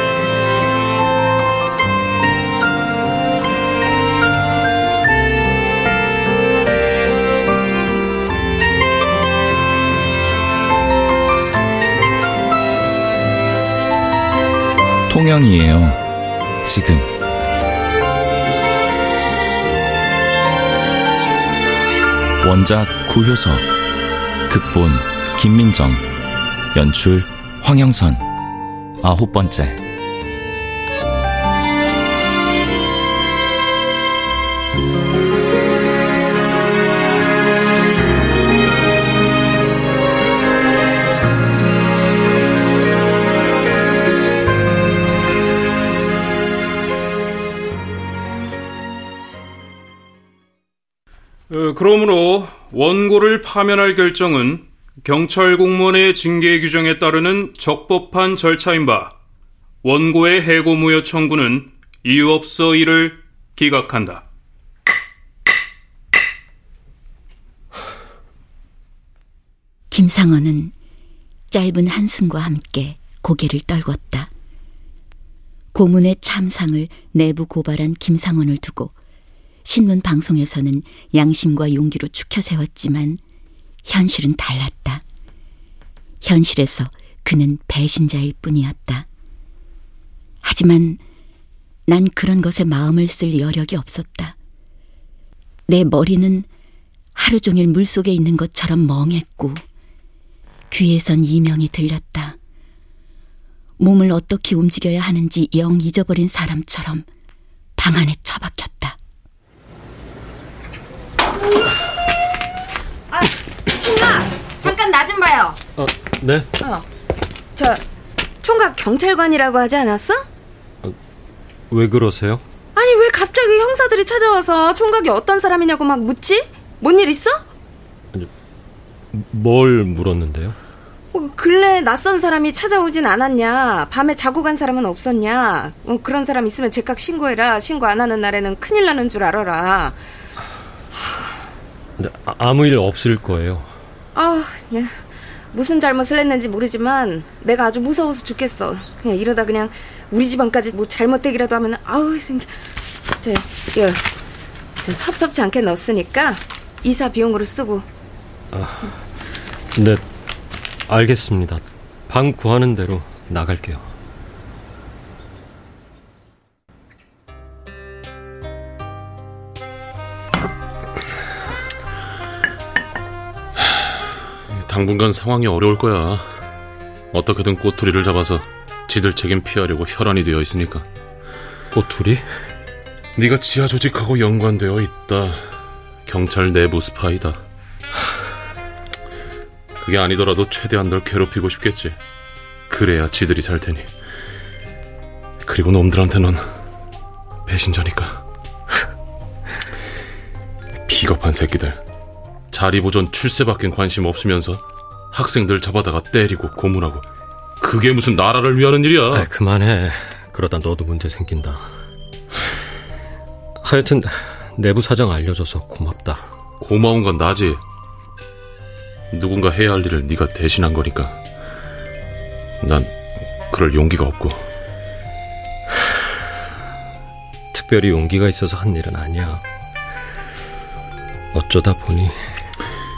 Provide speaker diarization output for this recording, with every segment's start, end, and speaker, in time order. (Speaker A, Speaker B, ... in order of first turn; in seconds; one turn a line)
Speaker A: 15.1-16.0
Speaker A: 16.7-17.1
Speaker A: 22.4-23.6
Speaker A: 24.5-26.0
Speaker A: 26.8-28.2
Speaker A: 29.0-29.8
Speaker B: 51.5-59.1
Speaker B: 59.8-64.2
Speaker C: 69.9-70.7
Speaker C: 71.5-74.3
Speaker C: 75.7-78.9
Speaker C: 79.7-83.2
Speaker C: 83.9-85.0
Speaker C: 86.2-89.1
Speaker C: 90.4-91.0
Speaker C: 91.9-94.4
Speaker C: 95.7-96.5
Speaker C: 97.2-99.6
Speaker C: 100.7-102.4
Speaker C: 103.8-107.1
Speaker C: 107.8-109.0
Speaker D: 113.1-115.6
Speaker E: 115.8-116.5
Speaker D: 116.6-116.9
Speaker D: 117.6-117.8
Speaker D: 118.4-120.3
Speaker E: 121.7-122.4
Speaker D: 122.8-127.4
Speaker E: 129.1-130.6
Speaker D: 131.1-140.0
Speaker E: 142.0-143.7
Speaker D: 144.2-144.9
Speaker D: 145.5-152.5
Speaker D: 153.2-154.1
Speaker D: 154.8-157.9
Speaker E: 158.5-158.9
Speaker E: 159.8-160.0
Speaker E: 160.9-163.9
Speaker F: 174.5-176.3
Speaker F: 177.1-180.9
Speaker E: 181.7-182.3
Speaker F: 183.2-185.5
Speaker F: 186.1-187.4
Speaker F: 189.8-192.0
Speaker F: 192.7-193.9
Speaker F: 195.4-196.4
Speaker F: 197.5-198.2
Speaker F: 200.9-201.8
Speaker F: 202.5-207.1
Speaker F: 207.6-209.3
Speaker E: 209.1-211.7
Speaker E: 213.6-216.3
Speaker F: 216.6-217.6
Speaker F: 219.1-221.2
Speaker F: 222.6-222.9
Speaker F: 223.5-224.4
Speaker E: 227.5-229.4
Speaker E: 231.3-232.2